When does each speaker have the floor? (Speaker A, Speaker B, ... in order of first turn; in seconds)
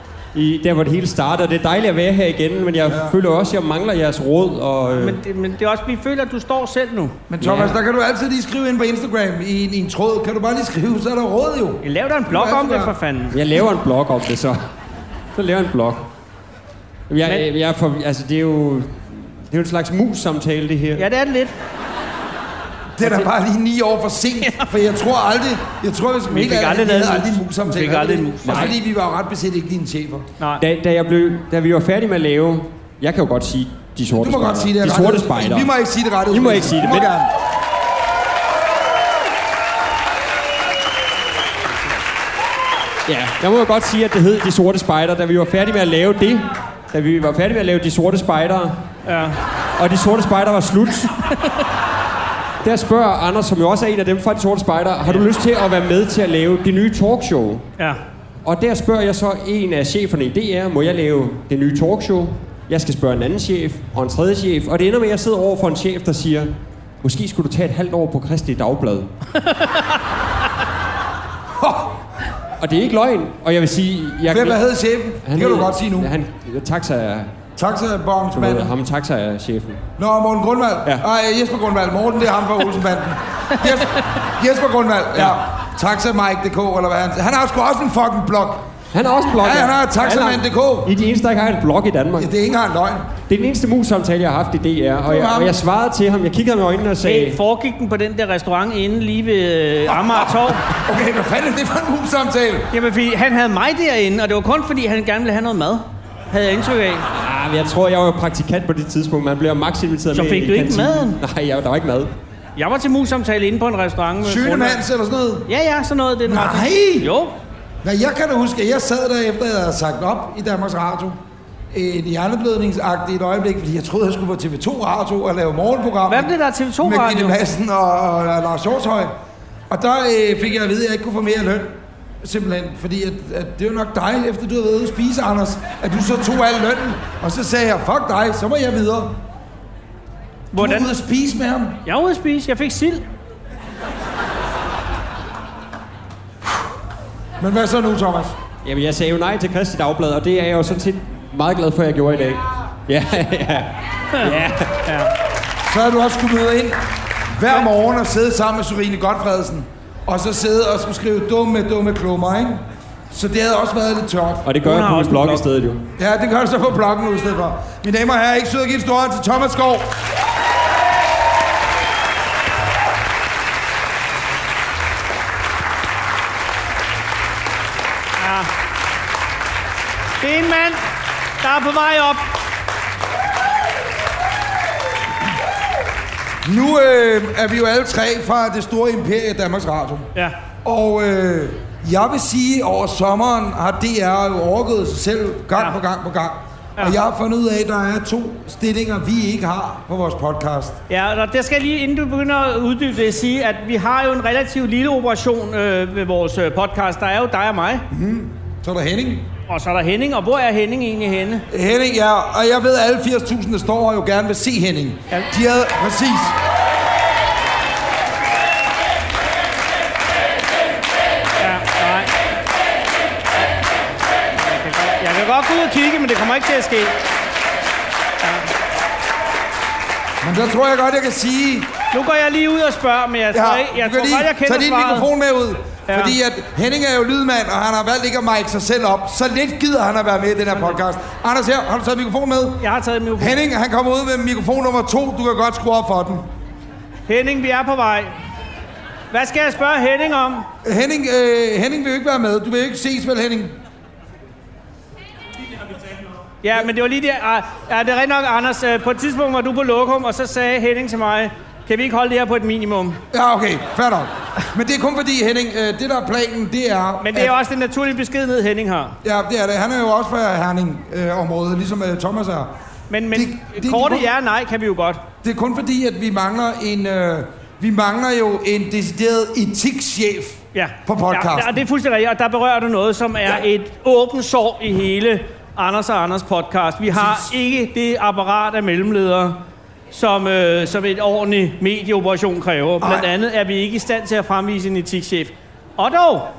Speaker A: 0.3-5.2, 7.4-7.8, 13.3-14.6, 15.3-16.1, 17.1-21.1, 28.4-28.8, 30.6-35.7, 36.3-37.1, 43.1-48.8, 49.8-51.2, 52.6-57.6, 58.4-66.5, 67.0-69.1, 72.6-74.6, 75.2-77.3, 78.3-79.8, 88.9-92.3, 93.3-97.4, 107.1-112.1, 148.6-154.8, 164.4-165.9
Speaker B: 2.9-3.2, 7.3-12.9, 23.0-30.3, 34.1-37.3, 71.6-72.0, 74.3-76.1, 77.5-78.7, 80.0-88.7, 89.4-90.9, 92.2-93.1, 95.0-95.6, 99.9-102.7, 114.2-115.5, 116.2-117.1, 117.8-121.2, 121.7-129.1, 129.7-139.2, 140.5-141.8, 147.4-148.3, 155.6-156.8, 157.3-164.5, 166.0-169.9, 186.4-190.1, 190.6-200.8, 207.9-209.3, 211.5-216.3, 230.2-231.7, 233.3-242.6, 243.2-246.3, 250.6-253.6, 263.1-267.3, 269.0-272.5, 273.1-274.1, 275.2-281.6, 286.9-287.3, 292.8-293.1
Speaker C: 4.9-7.2, 11.8-13.4, 21.0-21.5, 26.3-28.7, 49.0-49.4, 97.0-100.6, 102.7-107.0, 110.1-111.2, 112.6-114.8, 115.5-117.3, 126.1-127.4, 140.5-140.9, 141.8-143.0, 154.1-155.1, 164.6-165.4, 178.2-178.5, 180.2-180.8, 181.4-182.3, 200.9-207.8, 209.5-211.4, 221.4-222.1, 224.4-226.9, 228.2-228.5, 231.9-235.1, 235.9-236.2, 242.6-243.4, 247.1-248.1, 249.1-250.5, 256.4-263.0, 267.0-268.9, 272.9-275.0, 280.5-289.4, 289.9-296.3